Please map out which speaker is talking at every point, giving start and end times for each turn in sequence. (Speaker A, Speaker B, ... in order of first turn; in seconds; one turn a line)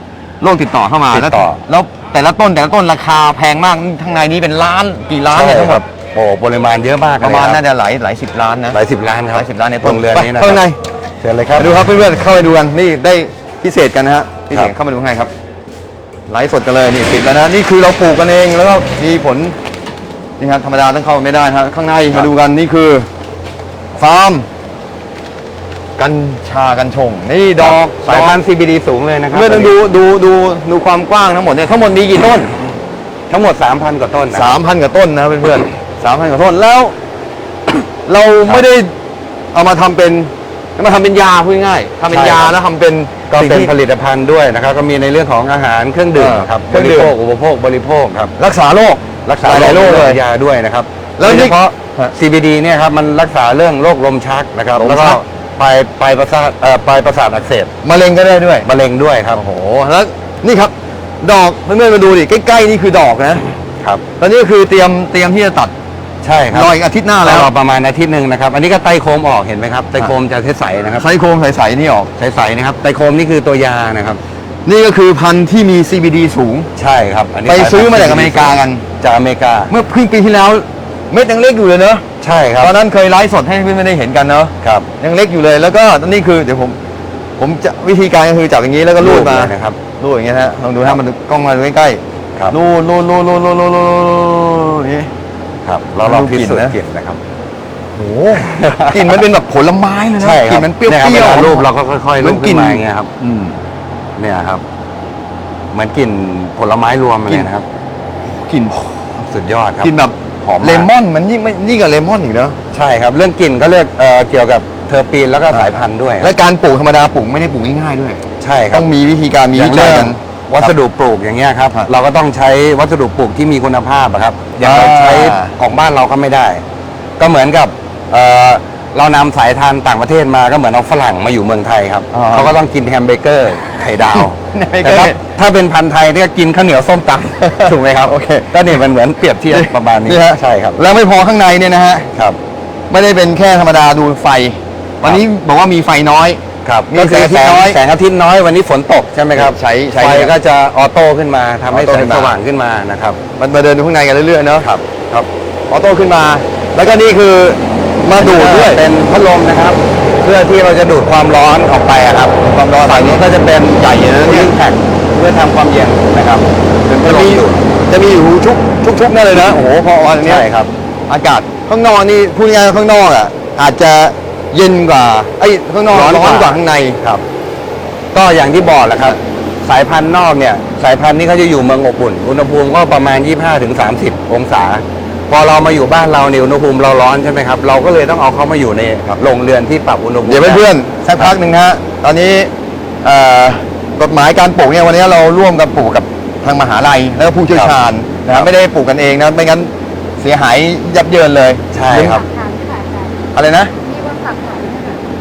Speaker A: 0.4-5.8
Speaker B: 1.1-1.6
Speaker B: 5.3-7.6
Speaker A: 7.2-8.8
Speaker B: 8.7-10.6
Speaker A: 9.3-10.8
Speaker B: 11.2-11.8
Speaker A: 11.6-15.3
Speaker A: 16.3-19.6
Speaker A: 20.4-23.1
Speaker A: 23.9-24.5
Speaker A: 26.0-28.4
Speaker B: 27.6-29.7
Speaker A: 29.3-32.6
Speaker B: 33.3-34.5
Speaker A: 34.3-36.9
Speaker A: 38.0-38.9
Speaker A: 39.5-43.7
Speaker B: 42.1-42.5
Speaker B: 43.3-48.3
Speaker A: 46.1-47.1
Speaker A: 48.4-50.2
Speaker B: 49.2-57.7
Speaker A: 51.2-52.1
Speaker A: 54.8-55.2
Speaker A: 57.8-58.7
Speaker B: 58.6-59.4
Speaker A: 59.3-63.4
Speaker A: 64.2-65.7
Speaker B: 66.2-66.7
Speaker A: 66.5-67.5
Speaker B: 67.2-71.0
Speaker A: 71.0-72.1
Speaker B: 72.2-74.2
Speaker A: 74.6-76.7
Speaker B: 76.8-79.7
Speaker A: 77.5-78.8
Speaker A: 79.7-82.0
Speaker B: 82.2-82.7
Speaker A: 82.6-86.8
Speaker B: 84.6-84.9
Speaker A: 87.4-95.1
Speaker B: 89.0-89.8
Speaker B: 95.6-97.2
Speaker A: 96.0-96.7
Speaker A: 97.9-101.7
Speaker B: 98.3-99.2
Speaker B: 100.2-103.1
Speaker A: 102.2-103.6
Speaker B: 104.2-104.6
Speaker B: 105.7-107.7
Speaker A: 108.2-109.2
Speaker B: 109.2-110.9
Speaker A: 109.8-112.6
Speaker B: 112.7-116.3
Speaker A: 115.5-120.7
Speaker B: 118.4-118.8
Speaker B: 119.5-126.6
Speaker A: 124.6-125.5
Speaker B: 127.2-140.8
Speaker A: 132.1-132.6
Speaker A: 134.1-135.2
Speaker A: 137.5-138.6
Speaker A: 139.5-142.1
Speaker A: 142.9-147.8
Speaker B: 146.6-153.2
Speaker A: 149.3-150.3
Speaker A: 151.7-152.3
Speaker A: 153.4-154.7
Speaker B: 154.6-155.3
Speaker A: 155.7-158.8
Speaker B: 158.2-167.7
Speaker A: 162.4-163.2
Speaker A: 164.0-164.5
Speaker A: 167.0-170.4
Speaker B: 170.2-170.7
Speaker A: 171.1-177.0
Speaker B: 175.9-177.2
Speaker B: 178.1-190.6
Speaker A: 190.2-192.5
Speaker A: 193.0-202.2
Speaker B: 198.2-198.5
Speaker B: 201.7-202.2
Speaker C: 202.1-203.2
Speaker A: 203.3-203.7
Speaker C: 203.8-205.1